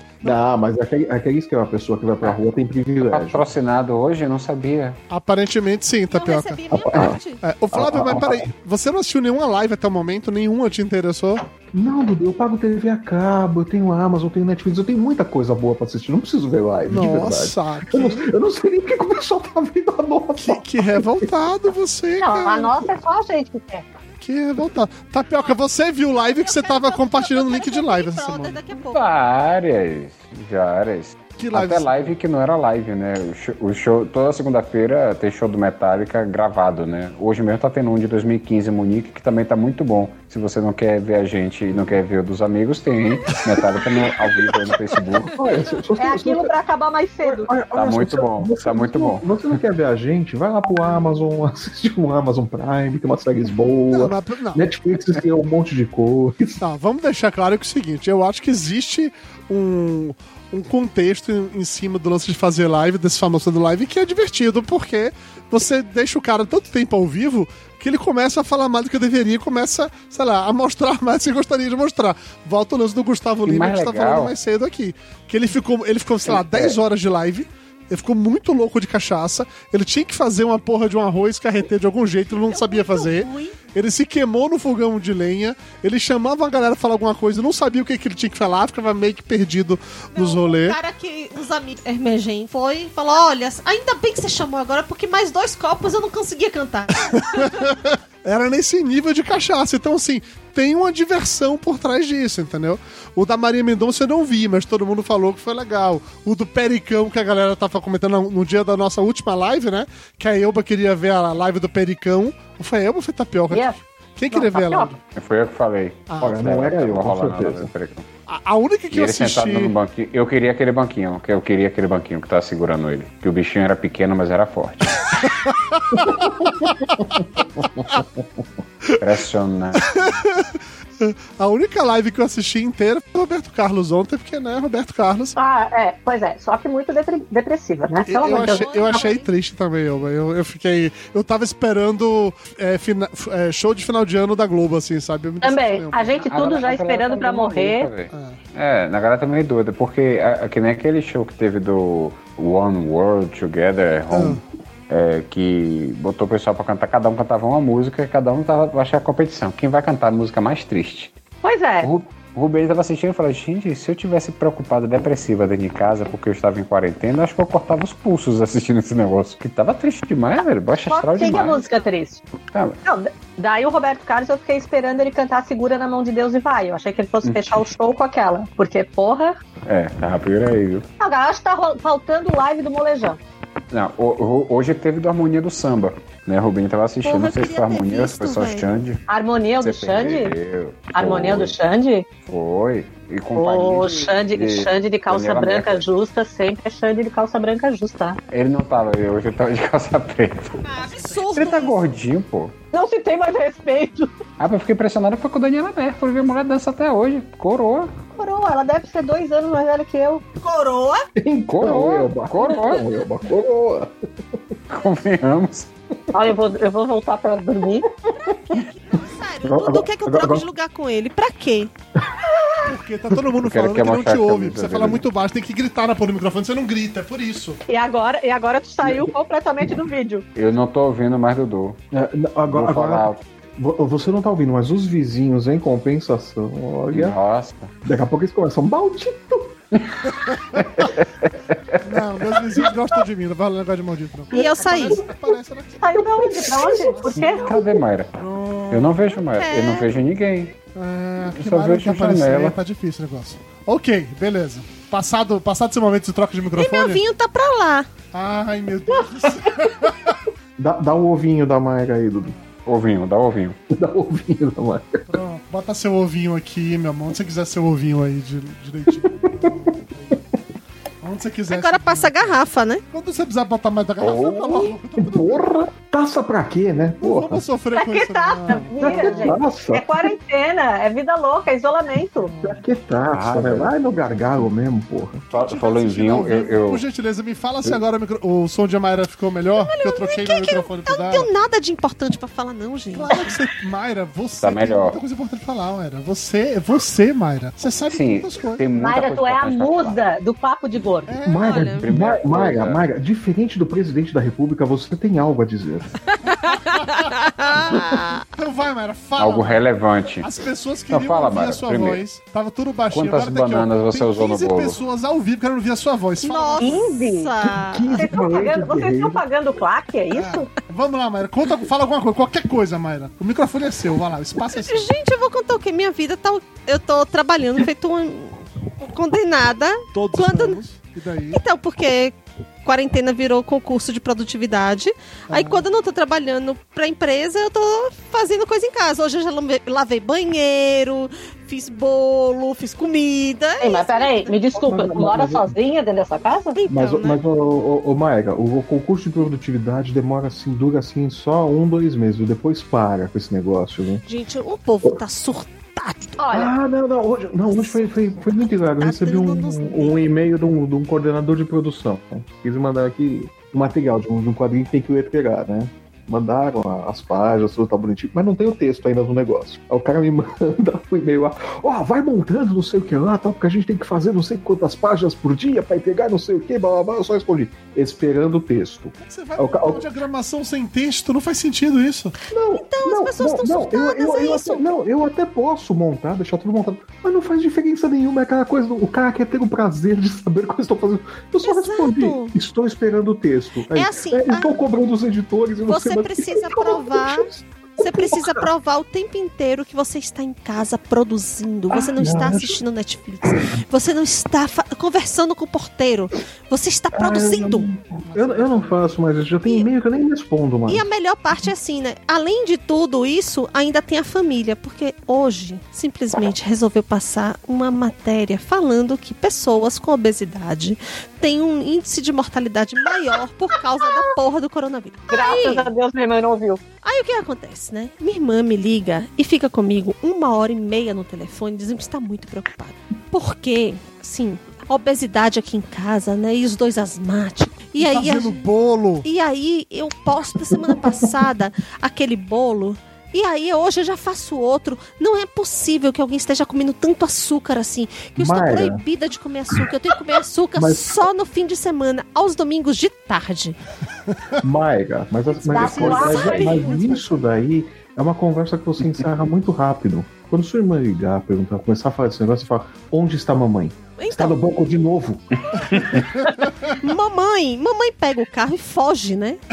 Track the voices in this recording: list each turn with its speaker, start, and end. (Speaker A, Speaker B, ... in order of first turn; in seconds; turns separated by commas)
Speaker A: 0.2-3.4, Speaker B: 3.1-5.0, Speaker C: 5.1-11.4, Speaker D: 6.1-7.4, Speaker A: 6.7-7.2, Speaker A: 7.7-8.5, Speaker A: 11.7-21.2, Speaker C: 16.9-18.3, Speaker C: 20.4-22.9, Speaker E: 22.2-23.8, Speaker C: 24.2-28.6, Speaker D: 26.2-29.1, Speaker B: 28.9-45.4, Speaker C: 31.4-32.1, Speaker C: 43.3-44.8, Speaker A: 45.3-46.5, Speaker E: 46.0-47.6, Speaker A: 47.2-56.6, Speaker B: 47.7-49.3, Speaker C: 53.9-54.6, Speaker C: 56.6-90.8, Speaker B: 73.4-74.3, Speaker B: 76.2-76.8, Speaker D: 82.5-83.5, Speaker D: 90.1-97.4, Speaker C: 97.1-115.0, Speaker E: 113.5-113.8, Speaker E: 114.3-114.9, Speaker B: 115.1-118.0, Speaker C: 116.1-116.4, Speaker A: 116.2-117.7, Speaker C: 118.3-119.7, Speaker B: 118.9-125.0, Speaker C: 125.2-127.0, Speaker B: 129.0-129.8, Speaker C: 129.7-135.3, Speaker E: 135.3-139.1, Speaker C: 138.1-146.1, Speaker D: 138.3-139.3, Speaker E: 145.4-147.9, Speaker B: 146.2-161.1, Speaker C: 148.1-148.4, Speaker C: 154.1-154.4, Speaker E: 161.4-161.9, Speaker B: 161.8-171.6, Speaker E: 170.9-172.2, Speaker D: 171.2-171.9, Speaker B: 172.5-172.8, Speaker E: 172.8-179.4, Speaker B: 177.2-177.6, Speaker B: 179.7-180.8, Speaker E: 181.0-183.2, Speaker B: 183.7-189.0, Speaker D: 187.0-188.7, Speaker E: 189.1-190.3, Speaker B: 189.6-191.6, Speaker E: 190.9-192.1, Speaker B: 192.2-195.9, Speaker E: 193.3-198.2, Speaker B: 198.3-200.6, Speaker D: 200.6-201.8, Speaker B: 201.3-202.5, Speaker E: 202.7-204.1, Speaker B: 204.4-207.9, Speaker E: 208.1-210.2, Speaker D: 210.4-211.1, Speaker A: 211.2-213.9, Speaker B: 211.5-212.9, Speaker B: 214.7-215.7, Speaker E: 216.1-217.9, Speaker D: 218.2-221.7, Speaker A: 219.4-220.4, Speaker C: 222.6-227.6, Speaker B: 223.4-225.0, Speaker E: 227.7-230.2, Speaker A: 228.8-229.1, Speaker B: 230.3-231.8, Speaker A: 231.9-237.2, Speaker B: 232.5-233.2, Speaker B: 236.9-237.7, Speaker A: 237.8-239.5, Speaker B: 239.7-241.8, Speaker A: 240.6-240.9, Speaker C: 241.8-247.5, Speaker E: 244.3-245.1, Speaker D: 244.3-245.0, Speaker E: 245.8-247.8, Speaker A: 246.0-247.0, Speaker B: 247.2-248.1, Speaker C: 248.2-249.0, Speaker B: 248.7-250.5, Speaker D: 249.3-249.9, Speaker C: 250.7-257.0, Speaker B: 251.3-252.6, Speaker D: 256.6-257.9, Speaker C: 258.1-260.2, Speaker A: 260.6-262.3, Speaker B: 262.6-263.6, Speaker A: 263.7-265.2, Speaker C: 265.1-270.2, Speaker A: 269.3-269.7, Speaker C: 271.0-272.4, Speaker D: 271.5-272.8, Speaker C: 272.9-275.4, Speaker B: 274.0-274.7, Speaker A: 275.0-277.4, Speaker C: 277.0-279.4, Speaker E: 277.7-282.3, Speaker A: 278.8-280.1, Speaker C: 282.2-282.6, Speaker A: 282.4-285.2, Speaker B: 283.1-283.7, Speaker B: 285.3-286.8, Speaker C: 285.3-291.3, Speaker D: 289.6-293.4, Speaker C: 292.9-298.6, Speaker B: 294.4-295.0, Speaker B: 297.9-300.0, Speaker E: 298.7-301.1, Speaker C: 301.1-301.7, Speaker A: 301.2-305.9, Speaker D: 301.4-301.8, Speaker B: 301.8-302.8, Speaker D: 306.2-308.2, Speaker C: 306.3-309.6, Speaker B: 309.2-310.3, Speaker C: 310.2-317.0, Speaker B: 310.9-312.0, Speaker B: 312.9-314.8, Speaker D: 316.2-318.1, Speaker E: 316.6-317.3, Speaker A: 317.4-319.2, Speaker E: 317.9-320.5, Speaker C: 320.1-324.9, Speaker D: 324.5-330.6, Speaker C: 329.9-331.4, Speaker D: 331.3-344.4, Speaker C: 335.3-335.6, Speaker E: 343.6-346.6, Speaker A: 344.5-345.6, Speaker D: 346.5-347.2, Speaker A: 346.7-354.0, Speaker D: 354.1-356.2, Speaker E: 356.2-356.5, Speaker A: 356.3-379.8, Speaker D: 357.5-360.0, Speaker C: 379.0-382.1, Speaker A: 382.3-398.4, Speaker D: 382.5-384.6, Speaker D: 391.4-392.3, Speaker D: 393.7-394.6, Speaker D: 395.6-407.7, Speaker A: 401.7-402.6, Speaker A: 406.9-410.9, Speaker C: 408.0-408.9, Speaker D: 410.7-425.7, Speaker E: 425.1-426.6, Speaker D: 426.8-438.4, Speaker C: 437.8-439.0, Speaker D: 439.0-453.6, Speaker A: 440.5-441.1, Speaker A: 448.2-448.8, Speaker A: 450.6-451.0, Speaker A: 454.4-465.2, Speaker E: 455.4-456.6, Speaker C: 455.5-457.1, Speaker D: 455.6-456.9, Speaker D: 464.0-464.4, Speaker D: 466.7-469.4